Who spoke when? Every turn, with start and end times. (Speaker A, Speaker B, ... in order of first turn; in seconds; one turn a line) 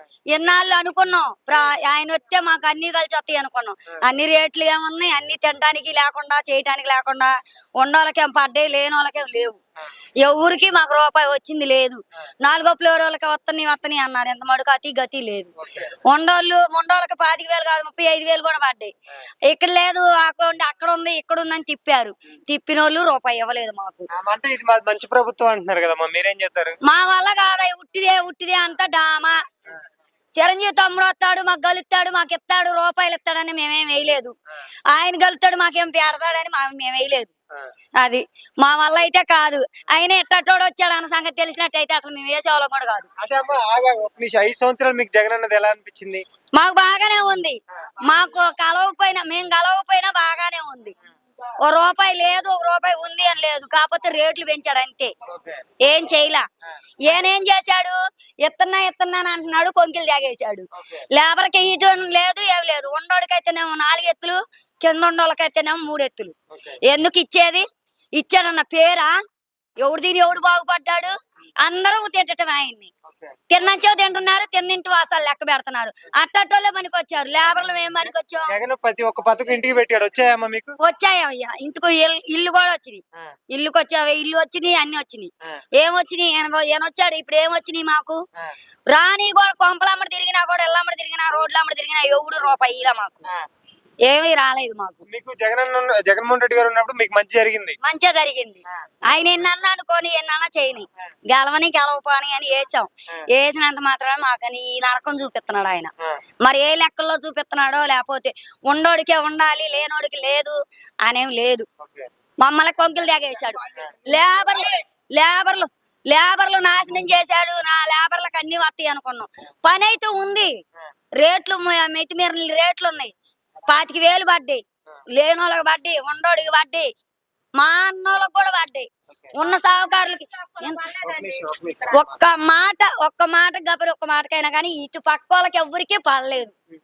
Speaker A: 0.3-9.6
Speaker A: 10.2-18.9
Speaker A: 19.5-24.1
Speaker B: 24.1-26.8
Speaker A: 26.8-29.4
Speaker A: 30.4-34.3
Speaker A: 34.9-37.3
Speaker A: 38.0-43.1
Speaker B: 43.2-46.2
Speaker A: 46.5-50.9
Speaker A: 51.6-55.1
Speaker B: 55.3-55.5
Speaker A: 55.8-56.4
Speaker A: 57.0-67.6
Speaker B: 60.8-61.0
Speaker A: 68.2-69.1
Speaker A: 69.8-72.9
Speaker A: 73.5-78.5
Speaker B: 78.5-80.8
Speaker A: 80.8-88.2
Speaker A: 88.9-93.2
Speaker A: 94.0-95.0
Speaker B: 95.0-97.8
Speaker A: 97.8-105.9
Speaker A: 106.4-111.7
Speaker B: 111.8-112.1
Speaker A: 112.4-120.5
Speaker A: 121.2-123.1
Speaker A: 123.7-124.6
Speaker A: 125.1-126.9
Speaker A: 127.6-131.0
Speaker B: 131.0-132.1
Speaker A: 131.9-136.5